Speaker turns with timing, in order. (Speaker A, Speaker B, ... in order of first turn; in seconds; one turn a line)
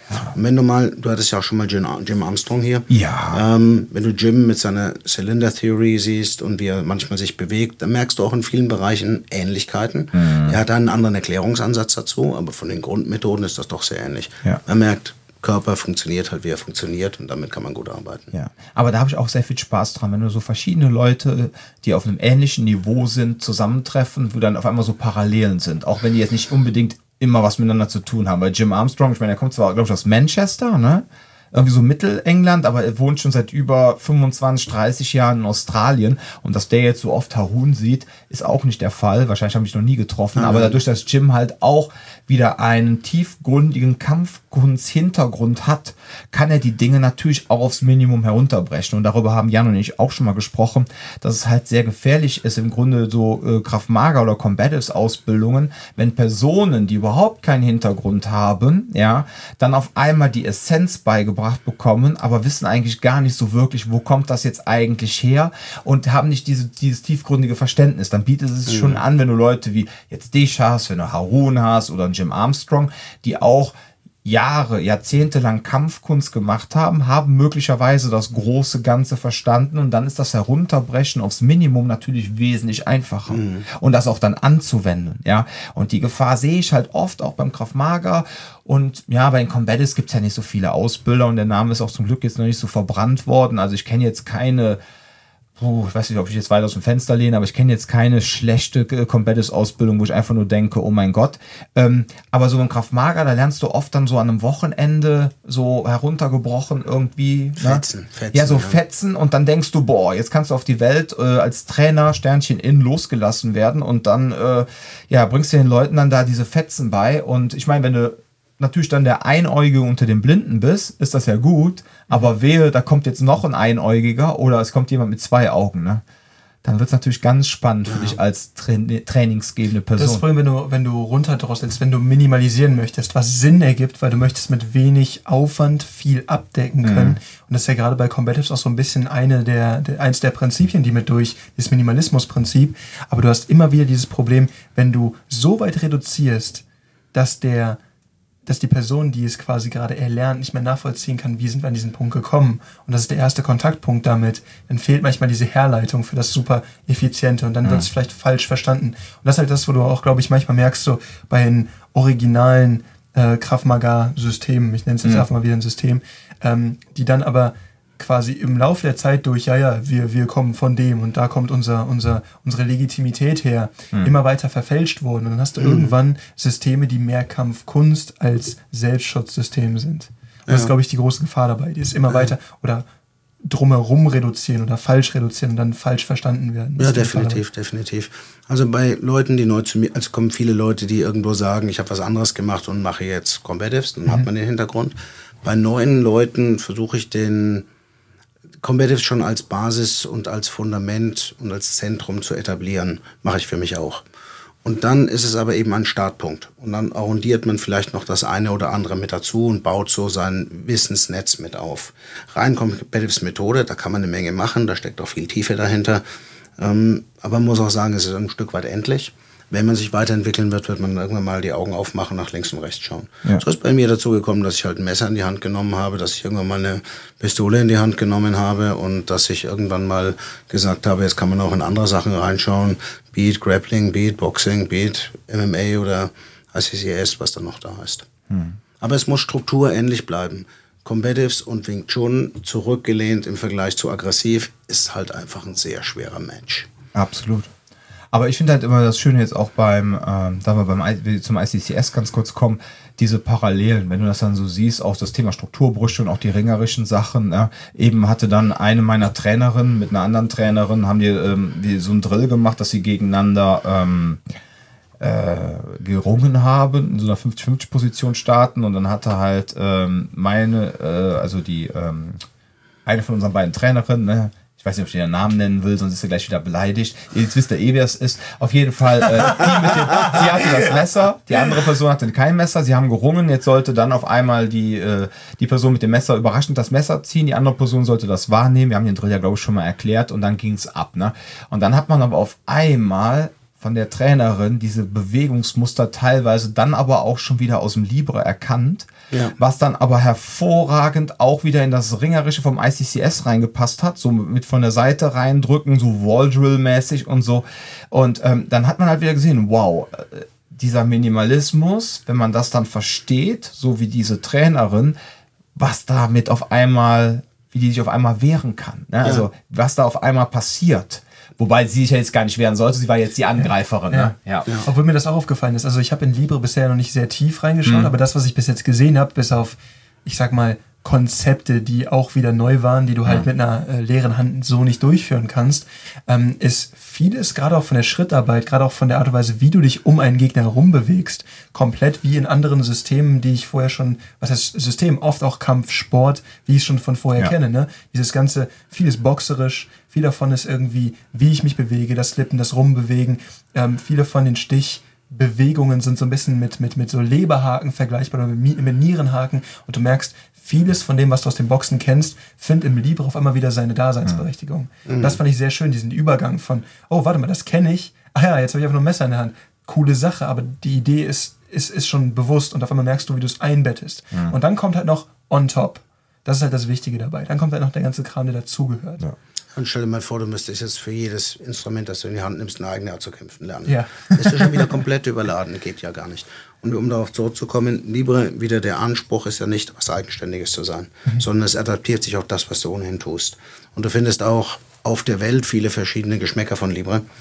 Speaker A: 0.1-0.3
Speaker B: 0.3-18.3
Speaker A: 2.9-3.4
Speaker A: 10.1-10.6
Speaker A: 18.3-94.8
Speaker B: 40.3-40.8
Speaker B: 68.7-69.0
Speaker B: 83.3-83.7
Speaker A: 95.6-126.0
Speaker B: 107.6-108.8
Speaker A: 126.6-130.2
Speaker B: 127.9-128.2
Speaker C: 130.0-146.6
Speaker A: 136.8-137.2
Speaker C: 147.1-147.8
Speaker C: 148.4-182.8
Speaker B: 175.6-175.9
Speaker B: 180.5-180.7
Speaker C: 183.4-187.4
Speaker B: 186.8-197.7
Speaker B: 198.6-204.0
Speaker B: 204.6-216.0
Speaker B: 216.6-238.1
Speaker A: 238.3-238.6
Speaker B: 238.8-246.7
Speaker A: 246.9-247.5
Speaker A: 248.1-264.2
Speaker A: 265.0-272.2
Speaker A: 272.9-315.0
Speaker A: 315.6-324.5
Speaker C: 324.6-379.0
Speaker A: 327.6-327.9
Speaker B: 364.9-365.2
Speaker B: 379.5-397.0
Speaker C: 383.7-384.7